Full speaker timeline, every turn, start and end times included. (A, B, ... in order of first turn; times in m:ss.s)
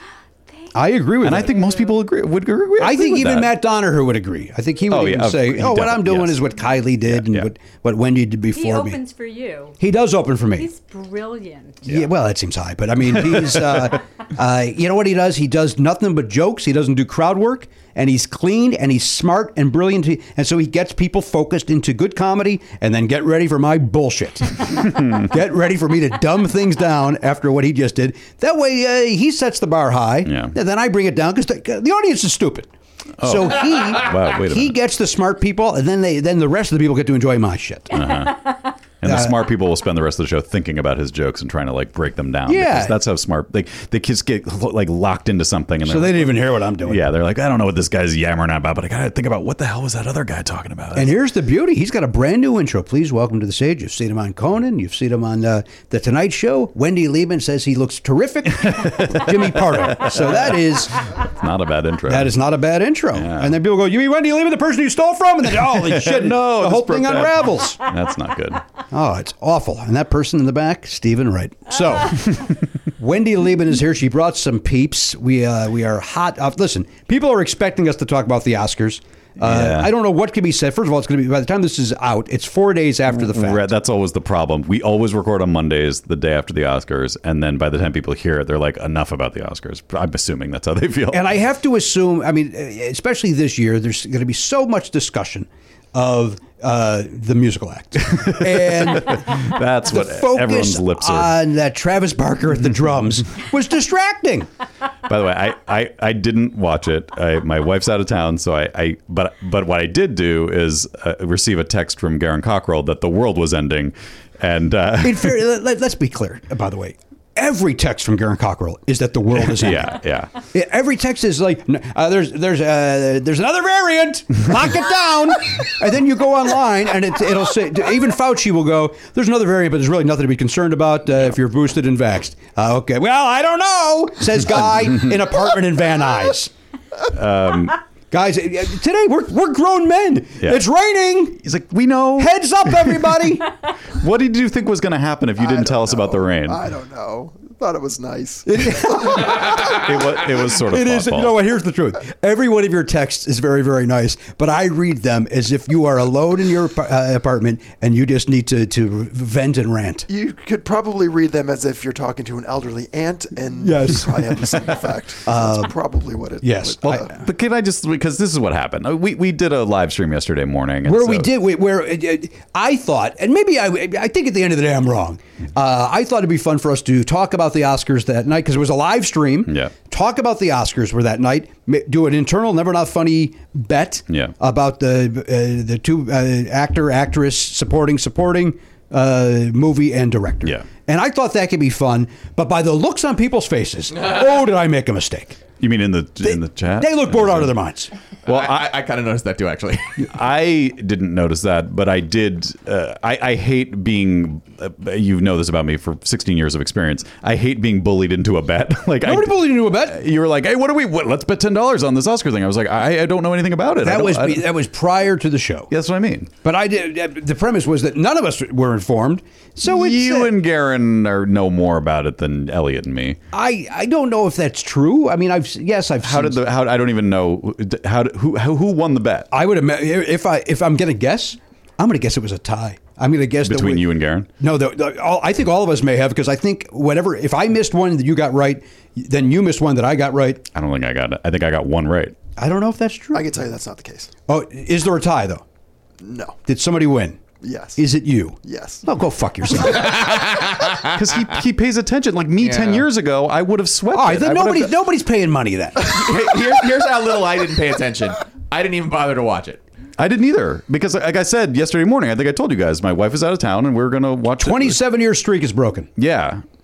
0:00.5-0:02.0 A
0:00.7-0:01.6 B
0:01.2-0:03.5 C
0:02.8-0:09.0 B
0:04.9-0:06.4 C
0:07.0-0:07.5 C
0:08.5-0:09.8 A
0:09.8-0:10.7 B
0:10.5-0:11.8 A
0:11.8-0:38.1 B
0:13.4-0:13.9 C
0:30.3-0:30.6 C
0:33.2-0:34.8 C
0:37.9-0:51.1 C
0:39.0-0:39.4 B
0:42.5-0:43.0 B
0:45.8-0:47.1 B
0:50.9-1:01.2 B
0:58.6-1:02.4 C
1:02.1-1:07.8 B
1:03.1-1:03.6 C
1:05.6-1:08.6 C
1:08.9-1:23.7 B
1:19.4-1:19.9 C
1:23.2-1:31.3 C
1:31.1-1:44.5 B
1:38.2-1:41.3 C
1:45.1-1:55.4 C
1:55.0-2:00.0 B
1:59.4-2:00.4 C
2:00.5-2:16.5 B
2:17.1-2:17.8 C
2:18.1-2:21.4 B
2:21.4-2:23.3 C
2:22.2-2:23.5 B
2:23.9-2:26.6 C
2:25.4-2:29.7 D
2:28.5-2:29.8 B
2:29.2-2:31.4 C
2:30.6-2:40.1 B
2:40.1-2:47.1 D
2:43.6-2:44.6 B
2:45.3-2:45.8 B
2:46.4-2:47.1 B
2:46.8-2:51.3 C
2:50.8-3:15.4 B
2:59.5-2:59.7 C
3:04.1-3:04.3 C
3:15.6-3:17.5 C
3:16.2-3:17.9 B
3:18.3-3:20.1 E
3:18.3-3:18.6 C
3:20.1-3:34.5 C
3:29.0-3:30.0 B
3:33.8-3:35.7 B
3:35.7-3:36.3 C
3:36.4-3:40.3 B
3:39.6-3:43.2 C
3:43.3-3:46.4 B
3:46.0-3:49.3 C
3:49.3-3:53.9 B
3:53.4-3:54.3 C
3:54.4-4:00.5 B
4:00.5-4:02.2 C
4:02.4-4:03.3 B
4:03.1-4:04.1 D
4:04.3-4:05.4 B
4:06.0-4:06.4 D
4:06.5-4:07.2 B
4:07.4-4:07.8 D
4:07.8-4:10.0 B
4:08.4-4:08.8 D
4:09.8-4:11.0 E
4:10.9-4:14.7 C
4:12.4-4:12.9 E
4:13.9-4:15.9 B
4:15.8-4:19.6 E
4:20.0-4:24.8 C
4:24.4-4:25.9 B
4:26.0-4:26.4 C